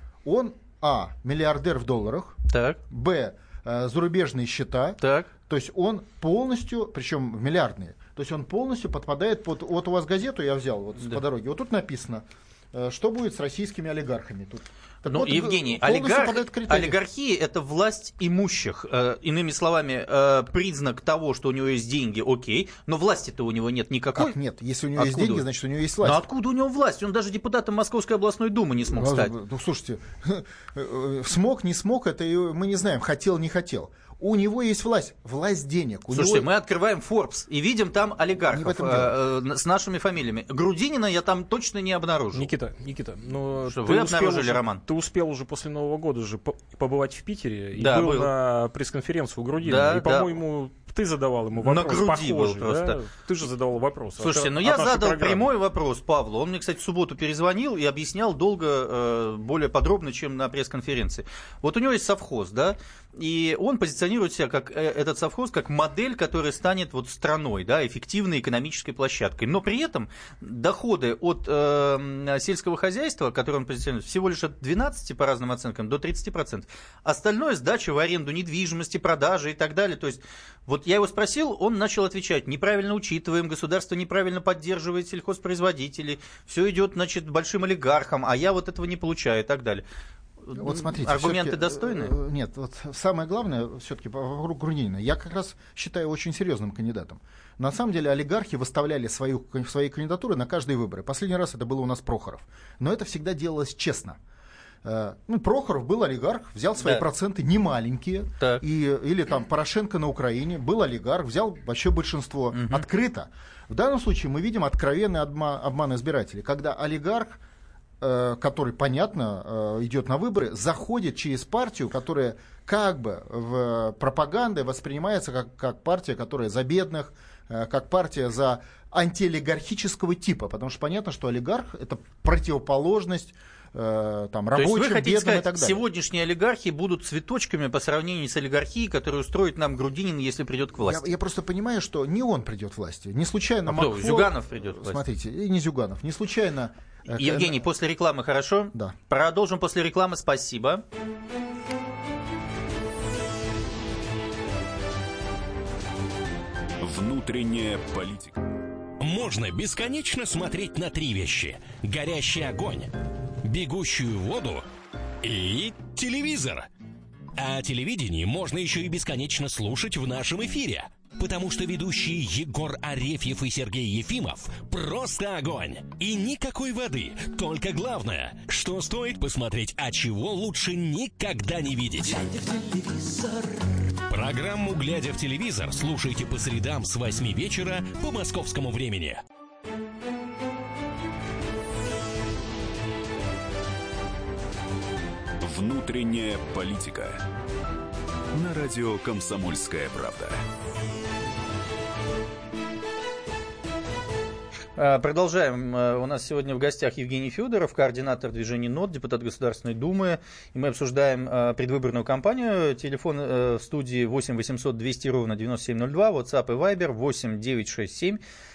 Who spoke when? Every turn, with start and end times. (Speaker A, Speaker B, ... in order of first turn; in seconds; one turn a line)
Speaker A: 0.2-2.4
Speaker B: 2.5-2.8
Speaker A: 2.9-17.0
Speaker B: 5.0-5.3
Speaker B: 15.0-24.3
Speaker A: 24.1-26.2
Speaker B: 24.9-25.4
Speaker B: 26.0-29.3
Speaker A: 28.9-36.5
Speaker B: 36.1-42.5
Speaker A: 38.5-39.1
Speaker C: 42.3-55.5
Speaker B: 43.6-44.8
Speaker B: 47.8-48.3
Speaker B: 49.6-50.3
Speaker B: 51.6-53.0
Speaker B: 54.2-89.8
Speaker B: 90.4-92.1
Speaker A: 90.5-104.2
Speaker A: 104.8-117.4
Speaker B: 106.8-107.0
Speaker B: 112.5-112.8
Speaker A: 118.0-135.8
Speaker B: 134.5-141.1
Speaker A: 140.8-147.6
Speaker B: 143.7-145.0
Speaker B: 147.1-150.8
Speaker D: 156.8-158.4
Speaker E: 159.0-162.9
Speaker E: 163.4-164.7
Speaker E: 165.2-166.7
Speaker E: 167.4-189.2
Speaker D: 195.4-197.2
Speaker D: 198.3-200.4
Speaker B: 204.8-218.2